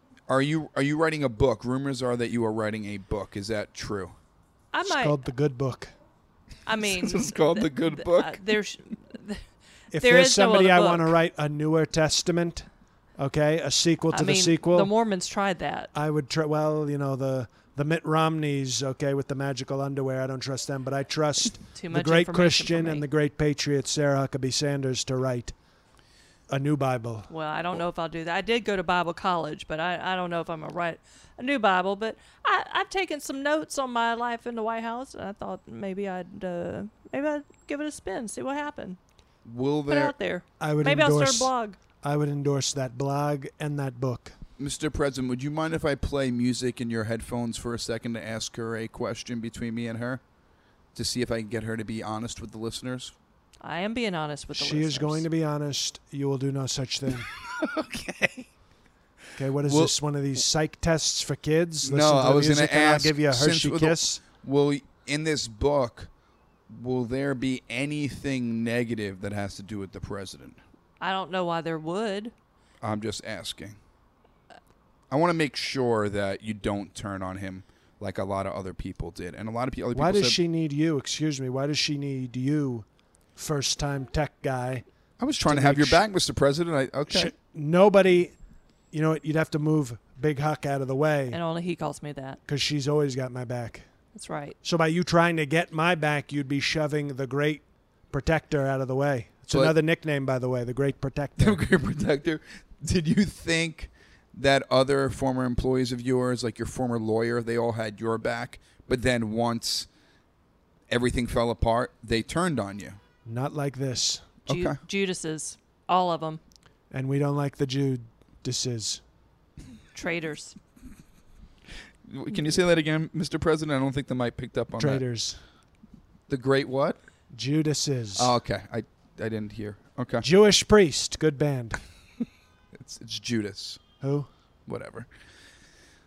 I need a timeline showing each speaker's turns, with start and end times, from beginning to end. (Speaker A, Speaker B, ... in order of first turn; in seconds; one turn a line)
Speaker A: 0.3-4.1
Speaker B: 4.7-5.2
Speaker C: 4.8-5.9
Speaker B: 6.7-9.4
Speaker A: 6.8-8.4
Speaker C: 9.9-12.7
Speaker B: 9.9-11.1
Speaker C: 13.2-14.9
Speaker B: 14.1-15.9
Speaker C: 15.9-25.5
Speaker B: 21.7-23.0
Speaker C: 26.5-27.3
Speaker B: 27.3-39.0
Speaker A: 39.4-40.1
Speaker B: 39.9-41.8
Speaker C: 40.6-41.5
Speaker C: 42.0-44.3
Speaker A: 44.6-50.2
Speaker A: 50.9-53.1
Speaker B: 53.6-55.2
Speaker C: 54.5-57.3
Speaker A: 57.4-58.5
Speaker C: 59.3-64.2
Speaker A: 59.6-59.9
Speaker A: 61.8-66.1
Speaker A: 66.7-70.6
Speaker B: 71.0-72.3
Speaker A: 72.8-73.8
Speaker A: 75.1-80.4
Speaker C: 79.9-82.8
Speaker C: 83.3-84.8
Speaker A: 85.2-87.3
Speaker C: 85.4-86.0
Speaker C: 87.1-88.3
Speaker C: 88.9-91.4
Speaker B: 91.3-92.4
Speaker C: 92.5-93.8
Speaker B: 94.1-94.5
Speaker C: 94.6-101.6
Speaker A: 101.4-109.9
Speaker A: 110.9-113.0
Speaker C: 113.2-114.3
Speaker A: 114.5-114.8
Speaker B: 114.5-116.4
Speaker C: 116.9-119.0
Speaker B: 119.9-120.5
Speaker A: 122.0-125.0
Speaker C: 124.8-125.4
Speaker A: 126.3-127.0
Speaker C: 127.3-128.3
Speaker A: 128.2-130.2
Speaker C: 130.2-131.8
Speaker A: 132.7-133.8
Speaker C: 134.0-134.3
Speaker A: 134.7-135.1